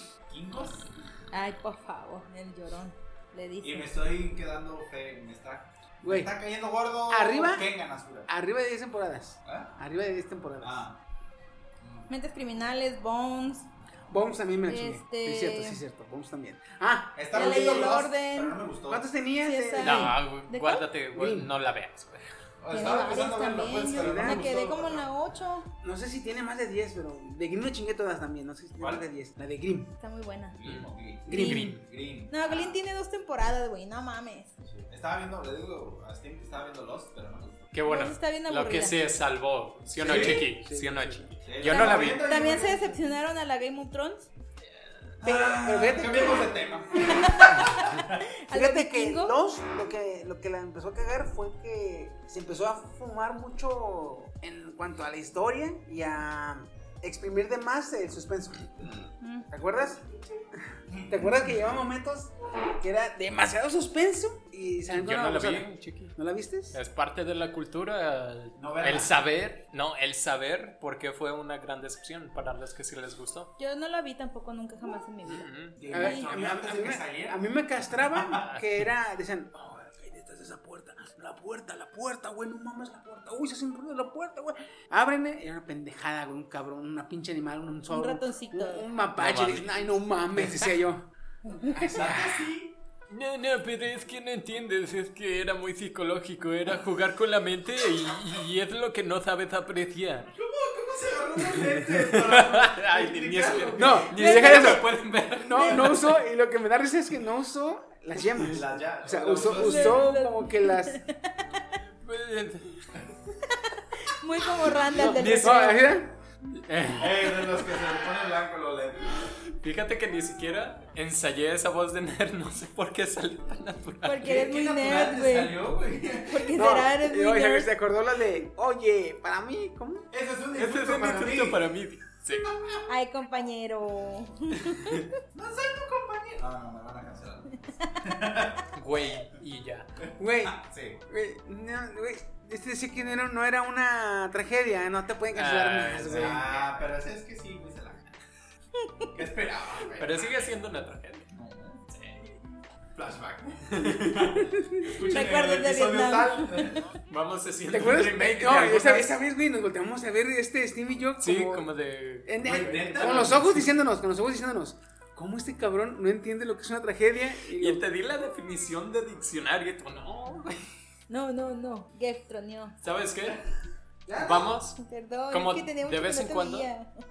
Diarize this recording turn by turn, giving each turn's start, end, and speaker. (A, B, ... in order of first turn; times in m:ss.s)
0:00.3-0:00.9 A
0:01.3-0:03.9 B
0:03.6-0:08.3 A
0:06.0-0:06.3 C
0:07.1-0:07.7 C
0:08.3-0:10.8 C
0:09.4-0:09.7 A
0:10.6-0:11.0 A
0:11.8-0:12.1 A
0:12.1-0:13.7 B
0:14.1-0:17.9 C
0:14.7-0:15.8 B
0:17.1-0:19.1 A
0:17.3-0:18.6 B
0:18.9-0:20.2 C
0:19.4-0:20.9 B
0:19.8-0:22.3 D
0:21.1-0:21.5 C
0:22.6-0:25.1 A
0:22.7-0:25.7 B
0:23.9-0:24.4 C
0:25.8-0:29.9 C
0:28.8-0:29.0 A
0:30.0-0:30.6 B
0:30.5-0:32.8 A
0:30.6-0:31.8 D
0:31.2-0:31.8 C
0:31.3-0:31.7 B
0:32.3-0:34.5 B
0:34.6-0:37.7 A
0:37.7-0:42.3 D
0:37.8-0:39.0 B
0:40.0-0:40.5 A
0:40.0-0:41.3 C
0:41.4-0:43.0 A
0:41.6-0:44.3 B
0:45.2-0:48.2 A
0:45.2-0:46.5 C
0:47.0-0:47.6 B
0:48.3-0:49.4 B
0:48.5-0:58.8 C
0:59.2-0:59.5 B
0:59.5-1:00.0 C
1:00.9-1:01.2 A
1:01.1-1:06.8 C
1:04.9-1:06.1 D
1:06.7-1:13.5 D
1:08.6-1:09.2 A
1:13.6-1:16.3 B
1:15.2-1:15.8 D
1:15.8-1:17.4 A
1:15.9-1:31.1 C
1:18.0-1:18.5 A
1:18.4-1:18.8 D
1:27.9-1:28.9 B
1:29.2-1:29.8 D
1:30.3-1:30.7 D
1:31.5-1:31.7 B
1:31.7-1:32.8 A
1:31.7-1:32.5 C
1:33.1-1:40.3 D
1:40.3-1:44.4 A
1:41.6-1:46.2 D
1:43.7-1:51.0 C
1:44.2-1:44.8 B
1:45.5-1:45.8 B
1:48.4-1:50.2 A
1:49.5-1:51.6 B
1:52.0-1:52.8 D
1:53.5-1:55.9 B
1:54.9-1:56.1 C
1:55.1-1:55.9 D
1:56.6-1:57.0 D
1:56.9-1:59.3 A
1:59.6-2:04.3 D
2:04.0-2:05.6 B
2:04.2-2:06.5 A
2:06.2-2:07.7 B
2:06.5-2:10.1 C
2:10.1-2:11.6 A
2:10.5-2:12.5 D
2:12.3-2:12.8 A
2:12.9-2:15.1 B
2:15.3-2:18.6 A
2:18.7-2:19.9 D
2:20.2-2:26.5 C
2:20.4-2:21.0 A
2:25.3-2:26.7 D
2:25.9-2:28.2 A
2:29.1-2:30.5 A
2:30.0-2:31.3 D
2:31.3-2:31.8 A
2:31.9-2:32.3 D
2:32.9-2:36.8 A
2:33.7-2:34.3 D
2:34.5-2:34.9 C
2:35.0-2:36.8 B
2:37.1-2:39.2 D
2:37.7-2:41.7 C
2:41.2-2:43.6 D
2:42.2-2:47.8 C
2:42.4-2:43.6 A
2:47.5-2:50.6 D
2:51.1-2:52.8 B
2:52.8-2:53.4 D
2:54.1-2:54.6 A
2:54.1-2:54.8 D
2:54.8-2:56.9 B
2:55.3-2:56.7 D